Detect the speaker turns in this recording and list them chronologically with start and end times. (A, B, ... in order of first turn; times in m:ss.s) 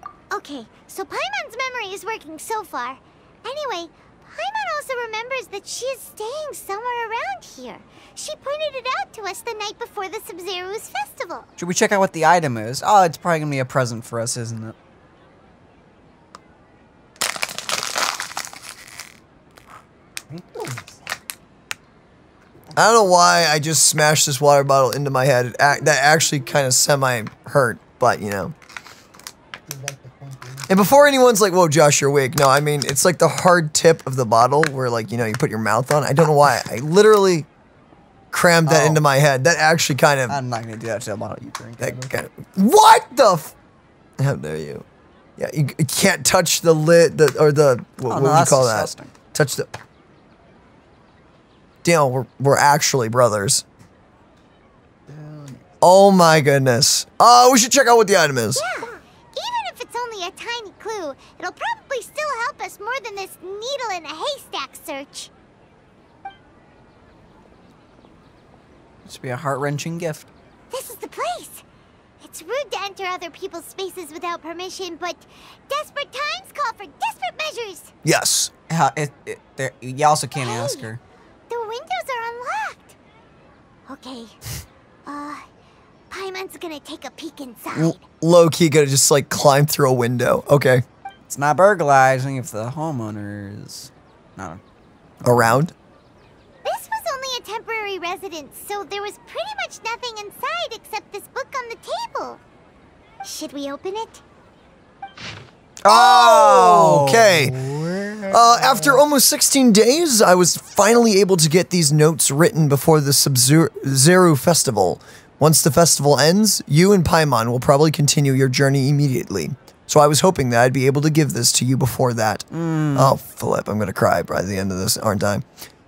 0:00.3-0:11.5 A
0:11.6-0:14.8 B
0:20.3-0:21.0 B
0:22.8-0:28.5 C
0:29.7-0:30.8 B
0:30.7-0:37.5 C
0:38.3-0:40.4 C
0:38.7-0:39.0 B
0:40.3-0:42.1 B
0:41.8-0:43.5 C
0:44.2-0:44.8 C
0:45.4-0:49.8 C
0:48.1-0:49.2 B
0:51.8-0:53.6 C
0:55.1-0:55.6 B
0:55.8-0:58.9 C
0:58.5-1:05.3 A
1:09.0-1:10.3 B
1:10.7-1:11.6 A
1:12.2-1:17.9 A
1:18.0-1:18.5 C
1:18.7-1:21.0 B
1:20.4-1:20.9 A
1:21.5-1:23.0 A
1:23.9-1:24.4 A
1:25.1-1:25.5 A
1:26.1-1:28.0 A
1:27.7-1:30.8 C
1:31.3-1:34.6 B
1:35.2-1:35.5 B
1:35.2-1:35.7 C
1:36.6-1:42.4 A
1:43.2-1:44.2 A
1:45.8-1:47.6 C
1:45.9-1:49.0 B
1:48.3-2:05.4 C
2:02.5-2:03.2 B